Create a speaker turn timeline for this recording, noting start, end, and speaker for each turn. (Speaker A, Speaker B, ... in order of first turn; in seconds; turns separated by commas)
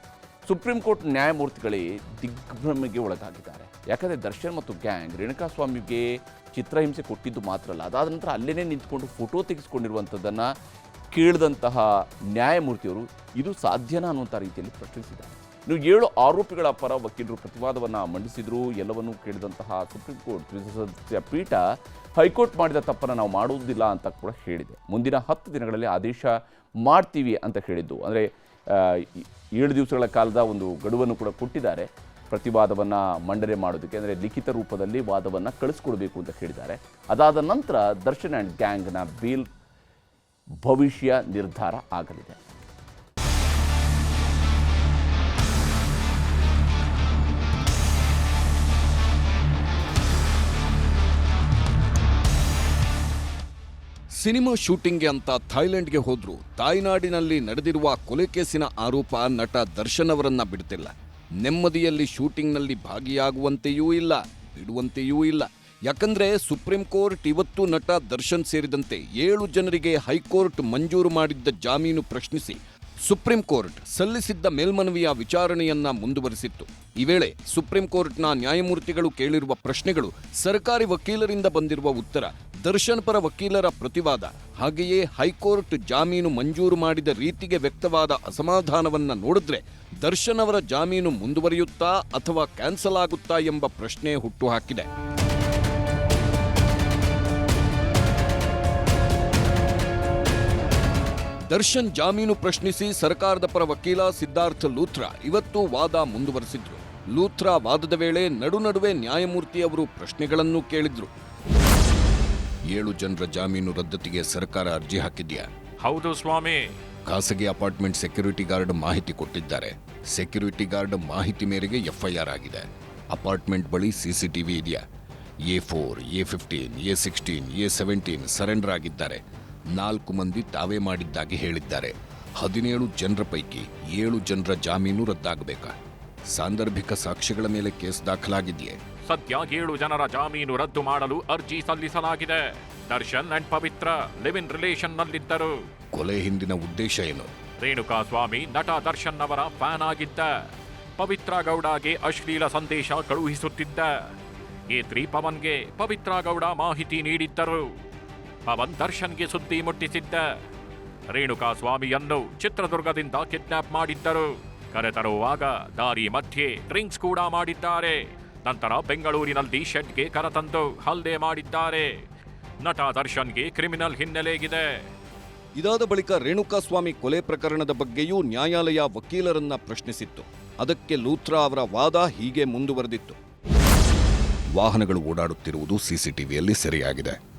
Speaker A: 0.5-10.5, Speaker A: 11.1-21.6, Speaker A: 22.2-39.5, Speaker A: 40.6-42.4, Speaker B: 54.2-94.9, Speaker B: 101.5-111.1, Speaker B: 112.7-115.5, Speaker C: 115.8-116.7, Speaker B: 117.0-124.8, Speaker B: 125.5-129.2, Speaker B: 129.7-135.7, Speaker B: 136.3-138.8, Speaker C: 139.1-145.5, Speaker B: 145.9-147.3, Speaker C: 147.6-150.3, Speaker C: 151.0-153.9, Speaker C: 154.7-157.6, Speaker C: 158.5-160.3, Speaker C: 161.1-171.9, Speaker C: 172.6-174.8, Speaker B: 175.6-183.2, Speaker B: 184.5-187.2